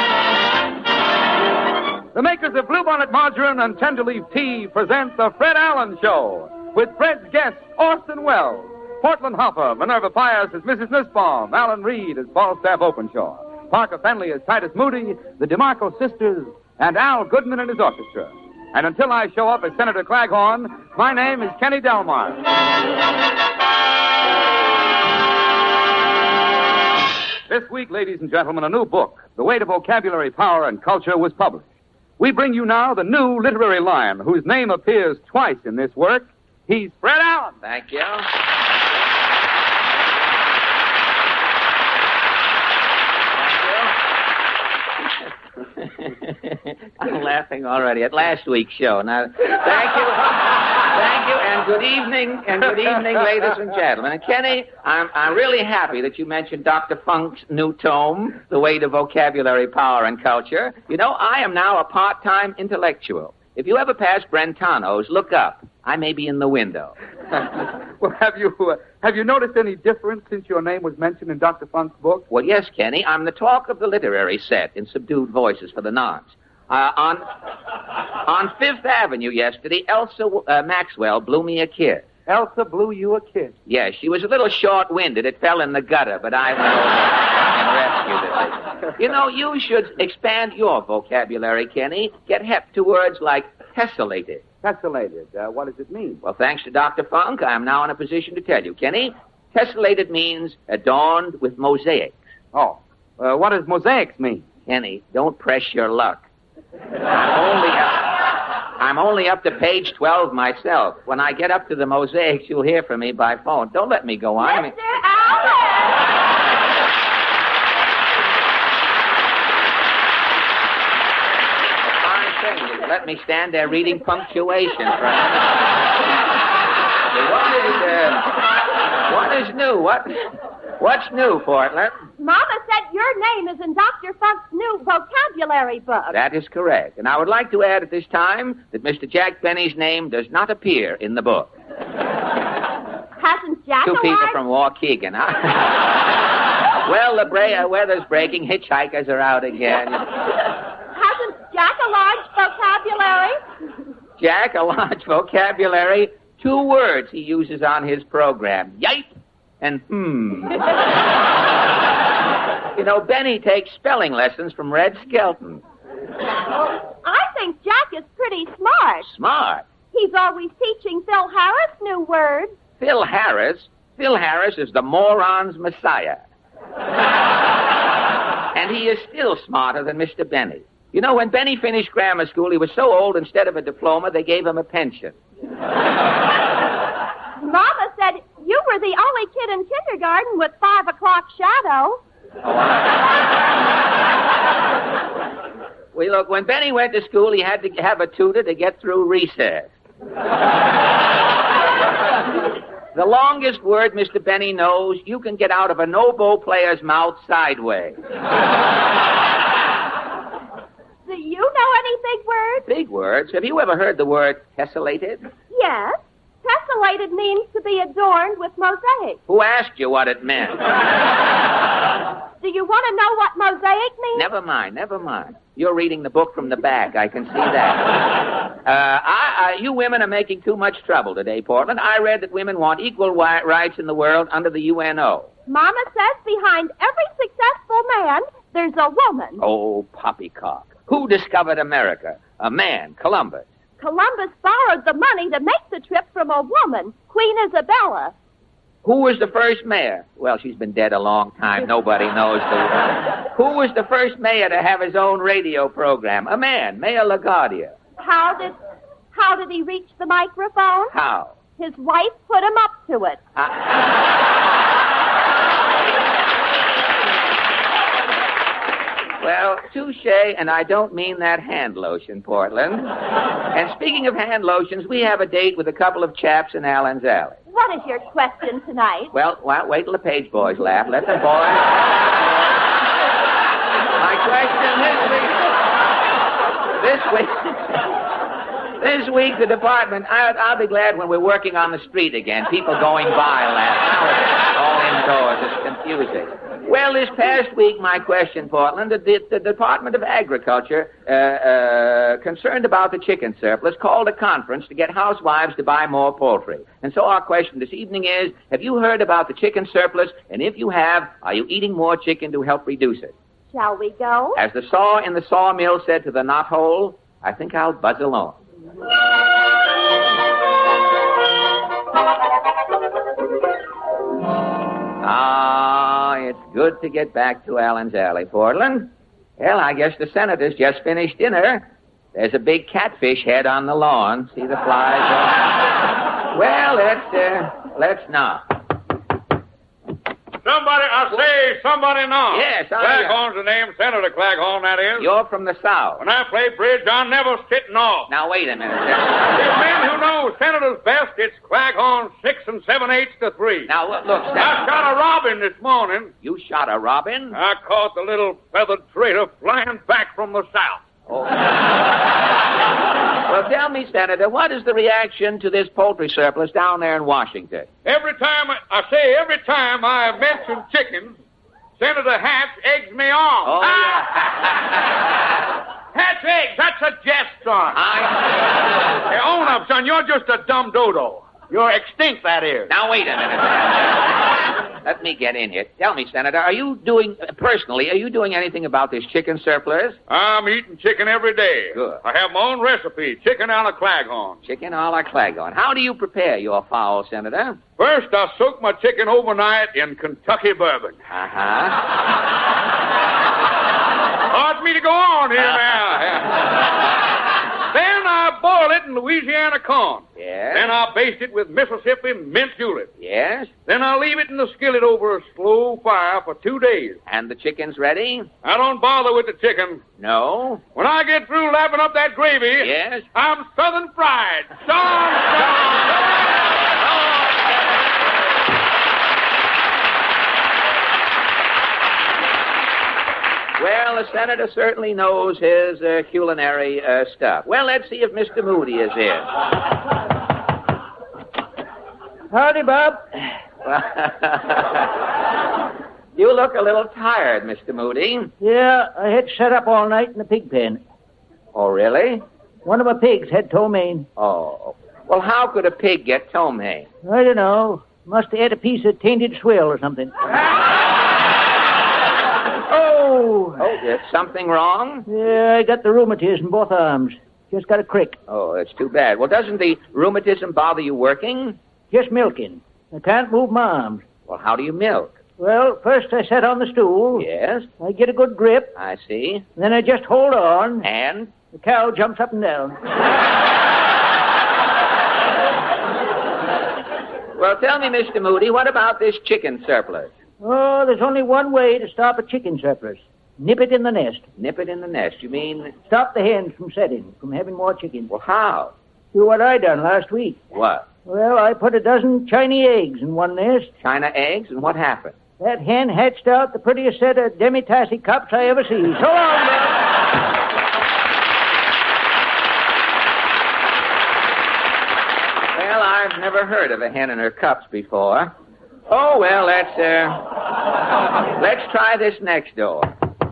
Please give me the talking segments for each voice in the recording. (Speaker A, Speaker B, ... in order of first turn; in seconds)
Speaker A: 2.1-22.4, 27.5-31.6, 32.2-37.5, 68.0-72.2, 82.3-83.5, 94.6-96.2, 102.5-104.4
Speaker B: 37.6-38.3, 43.3-44.0, 45.8-66.9, 72.3-77.3, 78.1-82.1, 83.7-94.4, 96.2-102.2, 104.7-106.2, 107.1-114.7, 121.9-125.6, 127.1-128.3, 129.0-131.9, 136.1-141.5, 143.8-146.0, 146.8-150.1, 154.2-159.1, 159.6-160.7, 162.7-165.6, 169.0-169.7, 172.8-176.2, 178.5-185.2, 192.4-192.9, 195.9-199.7, 202.9-208.0, 212.7-215.2, 219.3-220.7, 224.1-235.3, 239.4-243.4, 248.8-257.7, 260.9-261.4, 263.4-263.6, 269.2-273.0, 273.5-277.4, 279.1-282.1, 283.9-285.6, 286.8-288.0, 288.8-313.1, 314.4-318.4, 325.0-335.7, 336.3-338.4, 342.3-343.2, 345.0-346.0, 348.1-349.3, 353.7-354.7, 356.2-357.4, 361.1-361.5, 363.2-367.7, 373.4-374.7, 377.7-378.2, 382.7-384.1, 384.8-390.0, 391.7-392.0, 394.4-397.6, 401.1-401.8, 410.2-410.7, 413.0-413.5, 417.1-418.3, 420.0-420.6, 422.6-423.1, 425.6-427.9, 433.6-439.3, 443.6-444.9, 446.1-448.3, 451.5-452.2, 454.2-456.9, 463.6-465.1, 468.3-471.6, 474.3-475.2, 477.2-477.7, 478.8-479.5, 480.8-481.3, 487.4-490.1, 494.4-495.7, 498.1-498.7, 500.5-500.9, 503.8-505.2, 515.5-518.3, 518.9-520.6, 521.3-522.9
Speaker C: 114.4-115.9, 132.2-136.2, 143.2-144.4, 150.8-153.4, 167.0-169.1, 169.9-172.5, 187.4-192.0, 211.1-212.6, 215.5-219.2, 222.4-224.3, 235.5-239.4, 243.8-248.1, 258.0-258.6, 259.1-260.9, 261.6-263.2, 277.5-279.1, 313.5-314.4
Speaker D: 340.4-345.1, 346.0-348.1, 349.3-353.7, 354.3-356.1, 357.3-360.8, 367.8-371.2, 371.8-374.1, 375.9-377.8, 379.1-382.7, 390.1-394.4, 397.8-401.0, 404.3-406.4, 407.7-412.9, 413.6-417.0, 418.4-419.8, 420.8-425.9
Speaker E: 442.3-443.1, 448.4-450.8, 452.6-454.1, 457.0-460.3, 462.7-463.6, 465.1-468.2, 471.9-474.0, 475.4-477.3, 477.8-478.7, 479.6-480.9, 481.5-482.8, 490.4-494.3, 495.9-498.1, 499.1-500.4, 501.1-503.7, 505.4-509.8